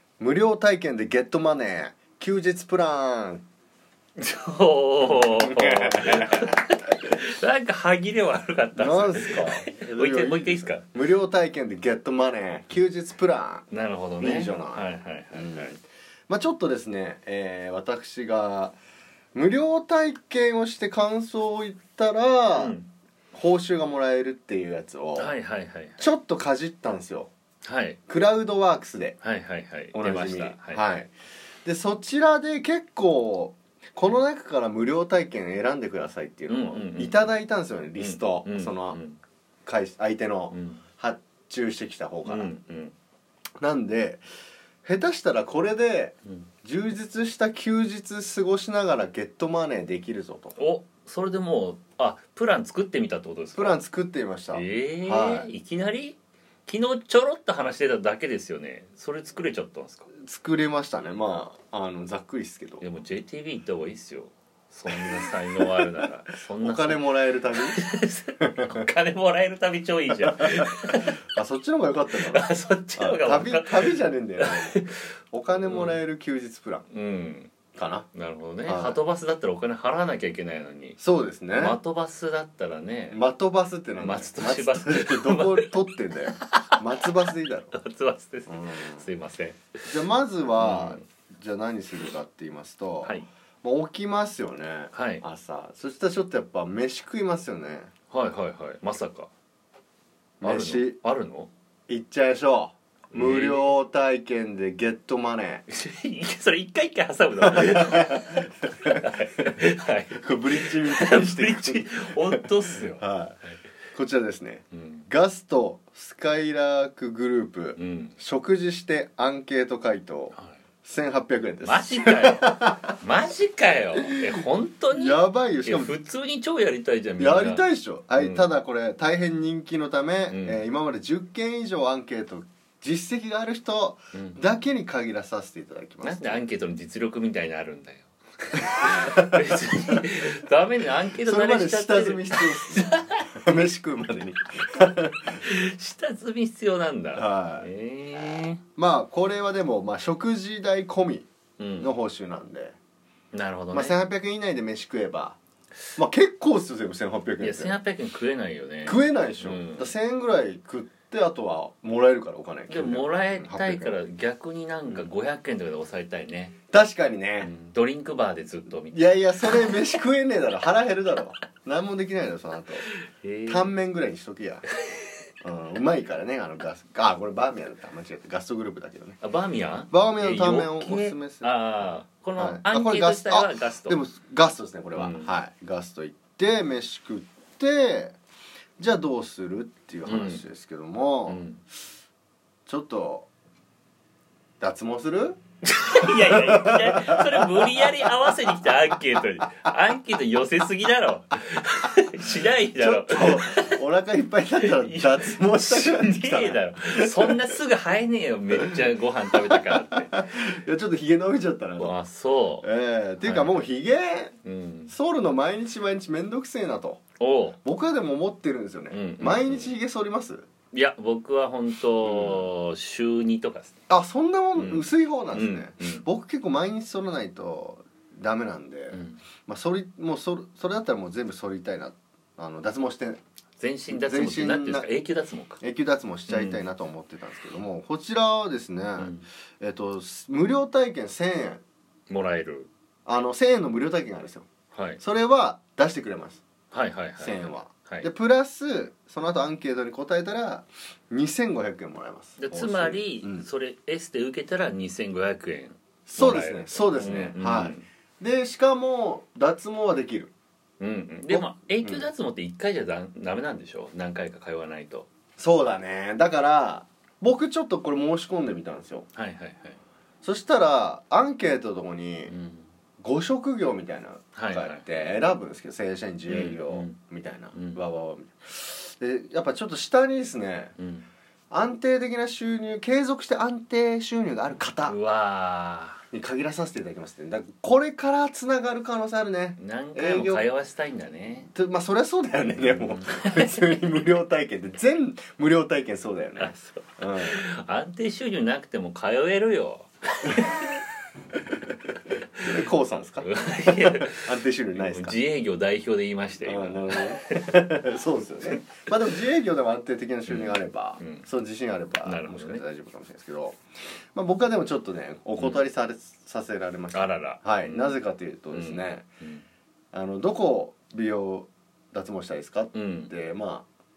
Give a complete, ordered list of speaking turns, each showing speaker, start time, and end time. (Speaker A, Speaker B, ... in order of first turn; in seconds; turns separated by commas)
Speaker A: 0.2-3.5, Speaker B: 4.2-10.8, Speaker A: 5.0-6.6, Speaker A: 8.8-13.7, Speaker B: 13.7-15.8, Speaker A: 14.2-15.8, Speaker A: 16.3-18.8, Speaker A: 19.3-22.8, Speaker B: 22.6-22.9, Speaker A: 23.3-25.3, Speaker B: 25.2-26.1, Speaker A: 26.0-27.3, Speaker B: 27.6-28.0, Speaker A: 28.1-29.2, Speaker B: 29.2-30.8, Speaker A: 29.9-31.1, Speaker A: 31.6-39.0, Speaker B: 36.5-37.3, Speaker B: 38.0-39.2, Speaker A: 39.6-42.5, Speaker B: 40.5-40.8, Speaker B: 42.3-43.0, Speaker A: 43.6-44.2, Speaker A: 44.8-50.6, Speaker B: 50.6-53.8, Speaker A: 53.5-55.5, Speaker B: 54.5-60.1, Speaker A: 60.2-62.8, Speaker B: 62.8-67.0, Speaker A: 64.9-66.0, Speaker A: 66.6-67.8, Speaker B: 67.7-71.2, Speaker A: 68.4-68.9, Speaker A: 70.3-76.9, Speaker B: 72.2-76.0, Speaker B: 76.9-77.5, Speaker A: 77.8-78.1, Speaker B: 78.1-81.0, Speaker A: 78.7-79.0, Speaker A: 81.0-81.8, Speaker B: 81.6-83.2, Speaker A: 83.1-87.8, Speaker B: 84.0-85.7, Speaker B: 86.4-86.8, Speaker B: 87.7-89.6, Speaker A: 88.5-89.1, Speaker A: 89.9-97.9, Speaker B: 90.6-91.0, Speaker B: 94.9-95.2, Speaker B: 98.1-99.3, Speaker A: 100.4-101.0, Speaker B: 100.4-101.5, Speaker A: 101.9-105.7, Speaker B: 103.1-103.8, Speaker B: 105.7-113.0, Speaker A: 107.4-109.5, Speaker A: 110.1-113.4, Speaker A: 113.9-123.0, Speaker B: 114.8-115.1, Speaker B: 117.8-118.2, Speaker B: 121.6-127.6, Speaker A: 124.1-125.9, Speaker A: 127.2-136.4, Speaker B: 128.2-128.5, Speaker B: 130.3-130.6, Speaker B: 134.1-134.4, Speaker B: 136.0-143.3, Speaker A: 138.8-140.0, Speaker A: 141.2-145.4, Speaker B: 145.4-148.6, Speaker A: 147.2-147.7, Speaker A: 148.8-151.3, Speaker B: 151.6-151.9, Speaker A: 151.8-152.8, Speaker B: 153.3-153.9, Speaker A: 153.7-155.4, Speaker A: 156.0-157.8, Speaker B: 157.4-159.9, Speaker A: 158.8-164.0, Speaker B: 162.7-166.6, Speaker A: 166.7-167.5, Speaker B: 167.4-169.8, Speaker A: 168.9-172.9, Speaker B: 173.0-173.7, Speaker A: 173.5-174.6, Speaker A: 175.4-179.2, Speaker B: 179.2-184.0, Speaker A: 179.9-181.6, Speaker A: 182.4-188.2, Speaker B: 184.9-185.3, Speaker A: 188.8-191.4, Speaker B: 190.1-190.4, Speaker B: 191.3-191.6, Speaker A: 192.7-193.3, Speaker A: 194.6-195.4, Speaker B: 195.7-203.8, Speaker A: 196.1-197.9, Speaker A: 202.7-207.4, Speaker B: 204.7-210.1, Speaker A: 209.5-211.9, Speaker B: 211.8-212.7, Speaker A: 212.6-214.4, Speaker B: 213.2-213.6, Speaker B: 214.4-214.9, Speaker A: 214.9-217.0, Speaker B: 217.2-217.6, Speaker A: 217.6-220.4, Speaker B: 218.9-219.7, Speaker B: 220.7-223.7, Speaker A: 222.0-222.5, Speaker A: 223.9-233.2, Speaker B: 224.6-226.1, Speaker B: 228.9-229.2, Speaker B: 233.6-235.6, Speaker A: 233.9-234.9, Speaker A: 235.6-241.6, Speaker B: 236.3-236.6, Speaker B: 239.0-239.2, Speaker B: 242.1-242.7, Speaker A: 243.1-244.5, Speaker B: 244.7-245.0, Speaker A: 245.0-246.4, Speaker B: 246.7-248.1, Speaker A: 247.2-253.5, Speaker B: 252.4-257.9, Speaker A: 256.1-260.3, Speaker B: 260.8-265.1, Speaker A: 261.3-262.1, Speaker A: 265.4-269.1, Speaker B: 269.1-269.8, Speaker A: 270.2-272.3, Speaker B: 272.3-272.7, Speaker A: 273.0-280.7, Speaker B: 274.4-274.9, Speaker B: 276.3-277.0, Speaker B: 277.5-277.8, Speaker B: 280.8-281.1, Speaker A: 281.5-284.9, Speaker B: 284.9-286.0, Speaker A: 286.1-290.5, Speaker B: 289.6-291.5, Speaker A: 291.5-297.4, Speaker B: 292.6-293.5, Speaker B: 296.4-300.8, Speaker A: 302.4-305.2, Speaker B: 303.2-307.6, Speaker A: 306.4-313.6, Speaker B: 310.3-311.3, Speaker B: 312.1-312.6, Speaker A: 314.1-319.1, Speaker B: 316.9-318.0, Speaker B: 318.5-319.4, Speaker A: 319.9-323.7, Speaker B: 322.7-323.1